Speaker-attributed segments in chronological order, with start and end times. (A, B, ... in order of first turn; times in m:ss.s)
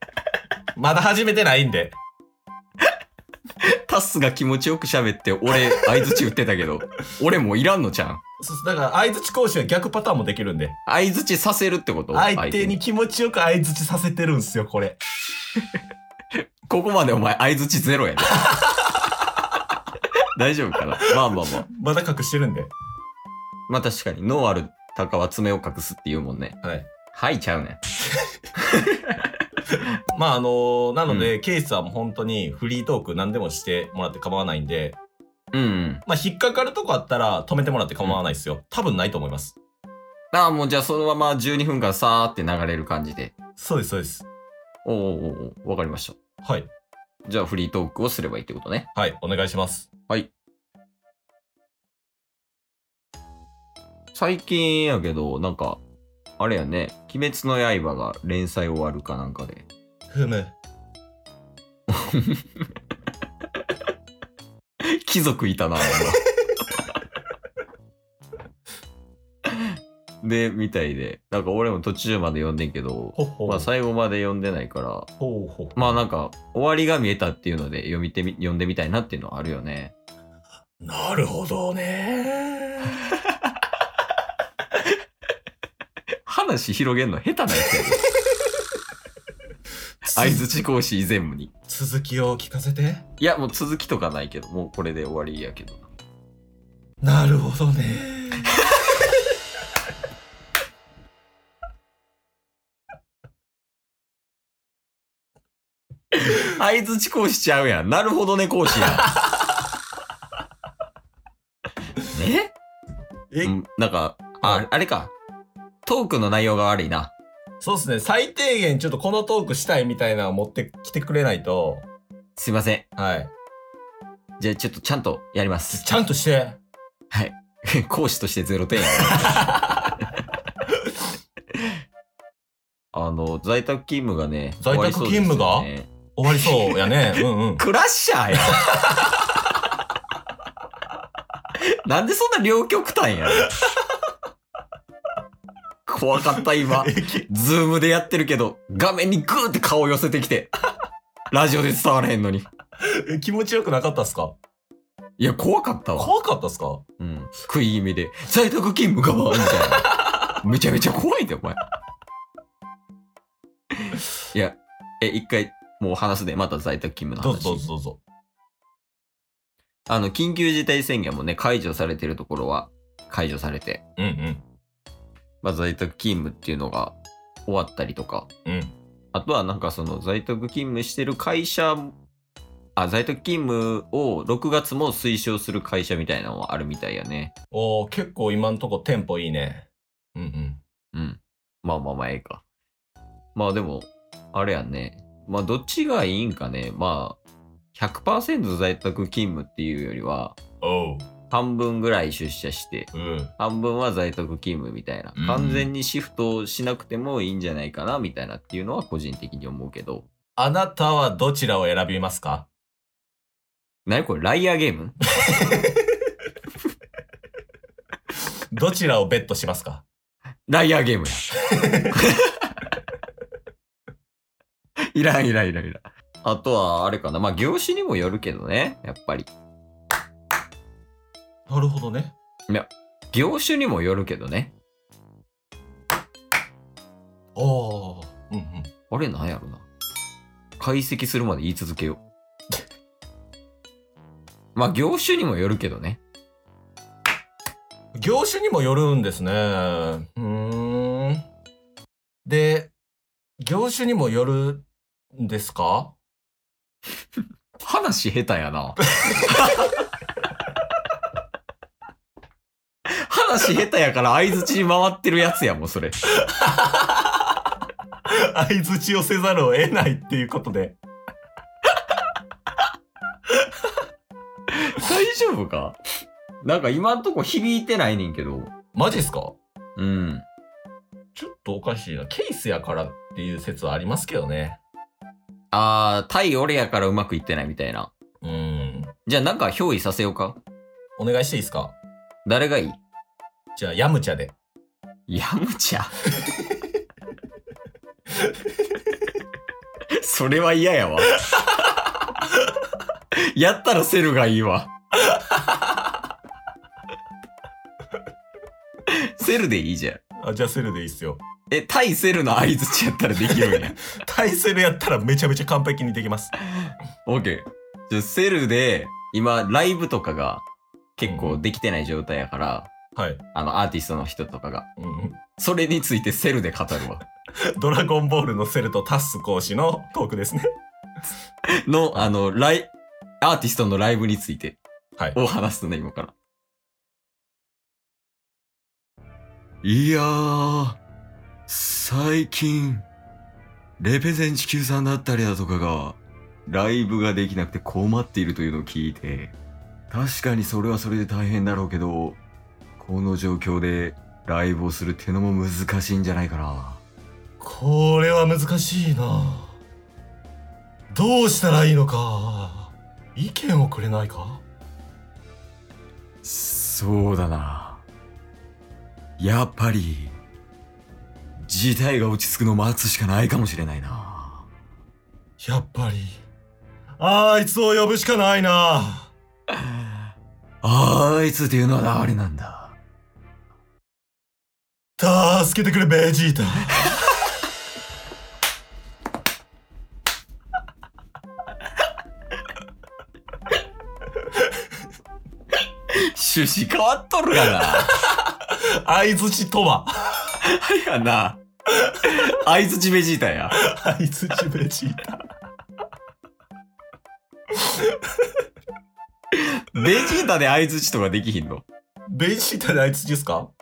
0:00.8-0:02.0 A
0:03.6-0:08.2 B
0:08.4-0:10.8 A
0:10.9-0:12.8 B
0:12.1-0:15.0 A
0:16.7-0:18.5 B
0:20.4-0:21.7 B
0:21.7-0:22.7 A
0:23.7-0:26.6 B
0:26.6-0:26.9 A
0:27.1-0:27.8 B
0:28.6-0:29.9 B
0:30.1-0:35.0 A
0:35.5-0:36.0 B
0:36.1-0:39.6 A
0:40.3-0:43.3 B
0:43.6-0:44.3 A
0:44.8-0:46.2 B
0:46.4-0:46.7 A
0:47.3-0:48.9 B
0:49.0-0:49.9 A
0:54.1-0:55.8 B
0:56.4-0:59.7 B
1:00.1-1:00.6 A
1:01.9-1:02.4 B
1:04.8-1:06.2 B
1:09.5-1:15.1 B
1:13.2-1:13.7 A
1:15.2-1:16.0 A
1:15.8-1:19.9 B
1:20.8-1:23.0 A
1:26.2-1:28.0 B
1:30.0-1:30.5 A
1:30.1-1:31.5 B
1:31.7-1:33.0 A
1:33.2-1:35.9 B
1:37.0-1:38.6 A
1:46.1-1:49.2 B
1:52.0-1:52.5 B
1:53.3-1:53.6 A
1:53.4-1:55.1 B
1:55.8-1:57.1 B
1:57.6-2:01.9 A
2:02.4-2:02.9 B
2:03.0-2:03.3 A
2:04.4-2:06.0 B
2:05.7-2:06.6 A
2:07.1-2:09.7 B
2:12.9-2:15.9 B
2:14.6-2:17.6 A
2:16.5-2:19.0 B
2:18.4-2:18.6 A
2:21.6-2:23.5 B
2:25.9-2:30.5 B
2:26.7-2:27.3 A
2:31.3-2:32.5 B
2:33.0-2:34.4 A
2:35.2-2:36.1 B
2:36.0-2:36.8 A
2:37.0-2:41.6 B
2:39.5-2:40.2 A
2:43.8-2:47.6 B
2:47.2-2:48.0 A
2:49.9-2:53.8 B
2:54.0-2:54.4 A
2:55.4-2:58.3 B
2:58.5-2:58.8 A
2:59.1-3:02.0 B
3:02.8-3:07.3 B
3:07.5-3:10.6 A
3:10.9-3:12.4 B
3:13.4-3:17.2 B
3:17.7-3:20.4 B
3:20.6-3:21.1 A
3:21.3-3:30.1 B
3:22.9-3:23.3 A
3:25.2-3:25.7 A
3:30.4-3:32.5 A
3:33.9-3:35.0 B
3:35.3-3:35.7 A
3:38.5-3:39.8 A
3:40.5-3:41.3 B
3:41.5-3:42.0 A
3:41.9-3:42.6 B
3:44.9-3:49.3 B
3:51.5-3:52.1 A
3:52.5-3:54.5 B
3:57.4-3:58.7 A
3:58.9-3:59.7 B
4:00.6-4:02.0 B
4:04.6-4:06.0 B
4:08.0-4:11.3 A
4:12.2-4:12.7 A
4:13.4-4:16.0 A
4:17.6-4:19.8 B
4:23.0-4:26.0 B
4:26.2-4:27.0 A
4:28.1-4:30.8 A
4:34.5-4:35.8 B
4:36.4-4:38.5 B
4:38.8-4:39.4 A
4:39.8-4:40.3 B
4:41.2-4:44.6 A
4:45.5-4:47.9 B
4:48.2-4:48.9 A
4:49.1-4:50.4 B
4:51.0-4:51.8 A
4:52.2-4:52.8 B
4:53.6-4:54.3 A
4:55.1-4:56.0 B
5:00.0-5:01.3 B
5:03.2-5:04.7 B
5:05.1-5:05.5 A
5:08.9-5:10.0 B
5:10.2-5:11.2 A
5:11.5-5:13.8 B
5:13.3-5:16.3 A
5:16.5-5:20.4 B
5:21.0-5:22.7 B
5:21.0-5:21.4 A
5:23.0-5:23.2 A
5:23.3-5:24.7 B
5:24.8-5:25.2 A
5:25.4-5:27.0 B
5:27.6-5:30.5 A
5:31.6-5:34.6 B
5:35.1-5:36.1 B
5:39.6-5:40.8 B
5:41.5-5:42.9 B
5:43.8-5:49.4 B
5:49.9-5:52.2 B
5:52.8-5:56.8 B
5:57.4-5:59.6 A
6:00.9-6:04.4 A
6:06.2-6:07.8 B
6:09.2-6:10.2 B
6:11.4-6:14.5 B
6:15.4-6:16.2 A
6:17.0-6:19.1 A
6:20.6-6:22.8 B
6:25.0-6:26.9 A
6:35.9-6:38.0 B
6:37.6-6:40.4 A
6:40.4-6:43.6 B
6:43.6-6:45.2 A
6:47.6-6:48.3 A
6:49.3-6:51.7 B
6:52.1-6:53.5 A